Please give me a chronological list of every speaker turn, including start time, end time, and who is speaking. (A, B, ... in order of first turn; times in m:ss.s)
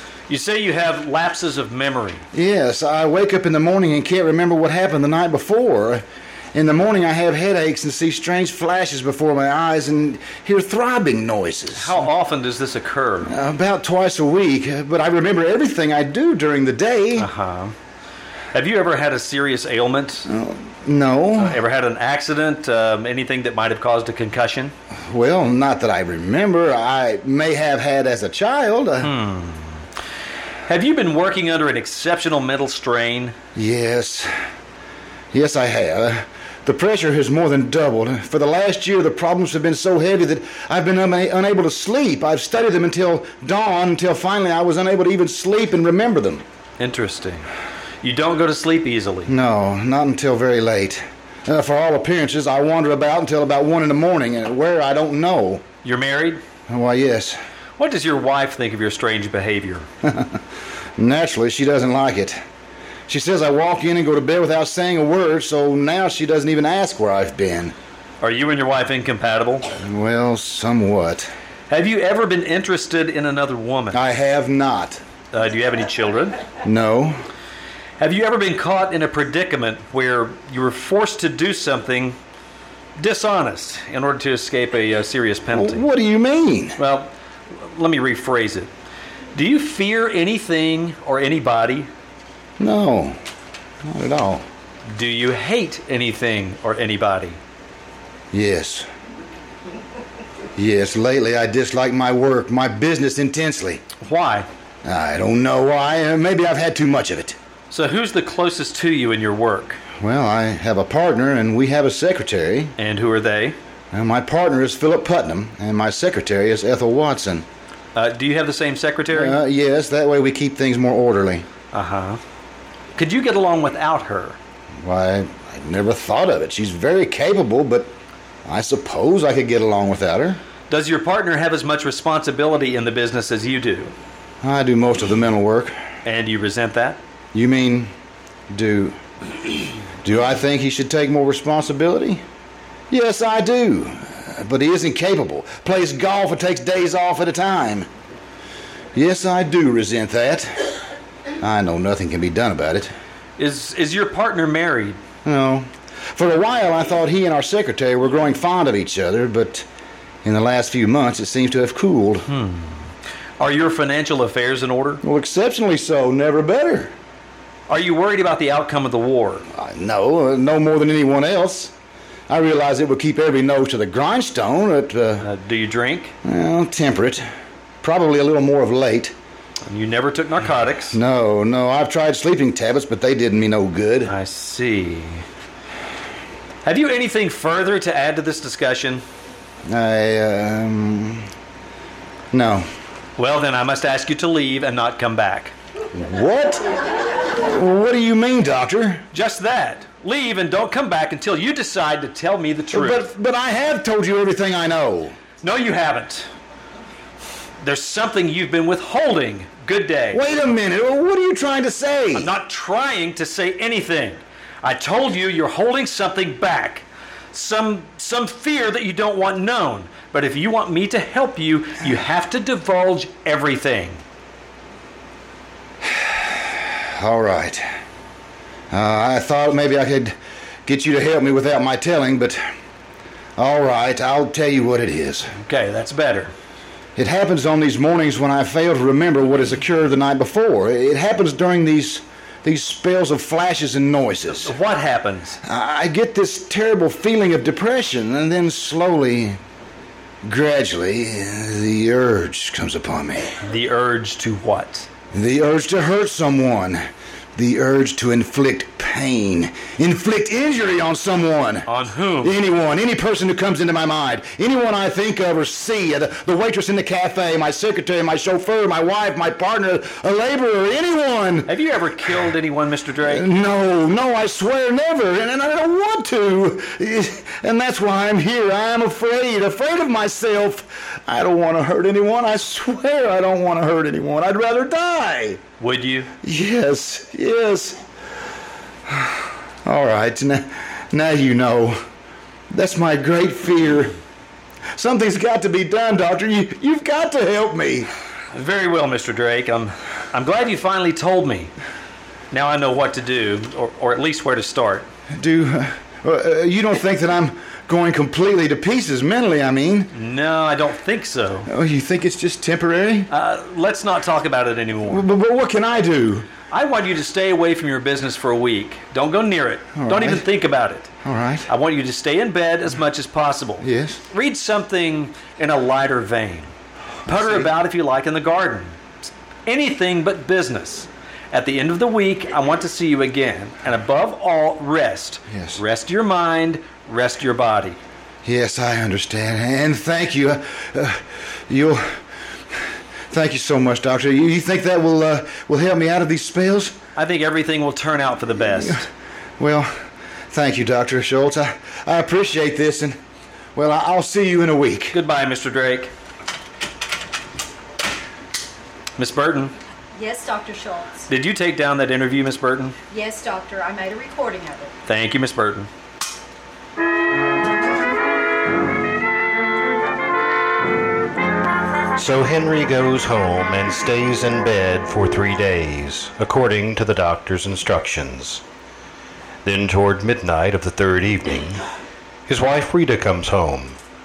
0:00.3-0:02.2 A
0:02.3-0:12.1 B
0:11.8-0:13.3 A
0:13.2-0:17.3 B
0:17.2-0:17.8 A
0:18.5-0:20.3 A
0:20.3-0:21.6 B
0:21.4-0:24.7 A
0:25.1-0:29.1 B
0:29.0-0:29.8 A
0:30.7-0:33.4 A
0:33.6-0:34.3 B
0:35.3-0:46.4 B
0:46.8-0:47.5 A
0:48.0-0:49.3 A
0:49.3-0:55.6 B
0:55.8-0:56.4 A
0:56.7-0:57.4 B
0:57.8-0:59.9 A
1:00.0-1:00.4 B
1:01.0-1:02.4 B
1:03.1-1:07.8 B
1:08.2-1:09.7 A
1:09.8-1:11.3 B
1:11.7-1:14.0 A
1:13.9-1:15.0 B
1:15.3-1:16.4 A
1:16.6-1:17.2 B
1:18.0-1:22.2 A
1:23.0-1:25.8 A
1:25.5-1:26.8 B
1:26.8-1:28.7 A
1:29.3-1:31.9 A
1:32.6-1:33.2 B
1:33.8-1:34.4 B
1:34.9-1:37.4 A
1:38.3-1:38.9 B
1:40.6-1:43.8 B
1:44.0-1:44.5 A
1:44.8-1:47.4 B
1:47.7-1:49.8 A
1:50.0-1:52.7 B
1:52.8-1:53.6 A
1:53.9-1:57.4 B
1:58.0-1:59.4 A
1:59.1-2:01.5 B
2:01.7-2:02.2 A
2:03.0-2:04.4 A
2:04.8-2:07.9 B
2:08.4-2:10.4 B
2:10.7-2:13.9 A
2:14.4-2:15.8 B
2:16.0-2:17.0 A
2:17.3-2:17.9 B
2:18.5-2:22.2 B
2:22.9-2:27.9 B
2:29.0-2:30.7 B
2:31.4-2:32.9 B
2:33.4-2:35.0 A
2:35.2-2:39.6 B
2:40.2-2:42.3 B
2:42.3-2:42.9 A
2:43.4-2:45.0 A
2:45.0-2:46.9 B
2:47.7-2:49.5 A
2:49.5-2:51.7 B
2:52.3-2:55.3 B
2:55.2-2:56.1 A
2:56.2-2:57.2 B
2:57.8-2:59.1 B
2:59.6-3:01.0 A
3:00.9-3:04.1 B
3:04.1-3:05.2 A
3:06.6-3:09.0 A
3:09.7-3:11.3 B
3:12.3-3:12.7 B
3:13.2-3:15.5 A
3:15.9-3:16.6 B
3:17.3-3:19.0 B
3:19.1-3:23.0 A
3:22.7-3:25.2 B
3:25.4-3:26.3 A
3:27.6-3:30.2 A
3:30.1-3:32.3 B
3:32.1-3:44.0 A
3:45.8-3:47.6 B
3:48.7-3:50.1 B
3:50.6-3:52.4 B
3:53.4-3:55.3 B
3:55.4-3:56.3 A
3:57.0-4:04.6 B
4:04.4-4:05.4 A
4:05.4-4:09.4 B
4:10.2-4:13.4 B
4:13.4-4:14.9 A
4:15.1-4:16.8 B
4:17.4-4:21.7 B
4:21.6-4:22.3 A
4:22.2-4:31.5 B
4:31.5-4:33.2 A
4:33.0-4:45.4 B
4:45.6-4:46.1 A
4:46.2-4:47.8 B
4:48.9-4:51.8 B
4:52.5-4:54.0 B
4:54.8-4:57.9 B
4:58.3-5:01.5 A
5:02.3-5:04.9 A
5:05.1-5:09.9 B
5:09.9-5:11.5 A
5:11.5-5:13.1 B
5:13.1-5:15.0 A
5:14.9-5:16.3 B
5:16.5-5:20.9 A
5:19.8-5:20.2 B
5:21.0-5:21.5 B
5:21.5-5:26.5 A
5:23.6-5:24.0 B
5:27.1-5:27.5 B
5:27.1-5:28.8 A
5:29.5-5:37.8 A
5:35.3-5:35.6 B
5:38.2-5:42.0 B
5:43.1-5:46.8 B
5:47.0-5:48.8 A
5:48.5-5:48.8 B
5:49.4-5:49.7 B
5:50.3-5:53.0 B
5:53.6-5:55.0 B
5:54.9-5:55.9 A
5:59.0-5:59.5 A
6:00.0-6:01.1 C
6:01.1-6:02.8 A
6:02.9-6:04.7 C
6:04.9-6:05.7 A
6:12.0-6:18.4 D
6:19.4-6:21.6 D
6:22.3-6:23.8 D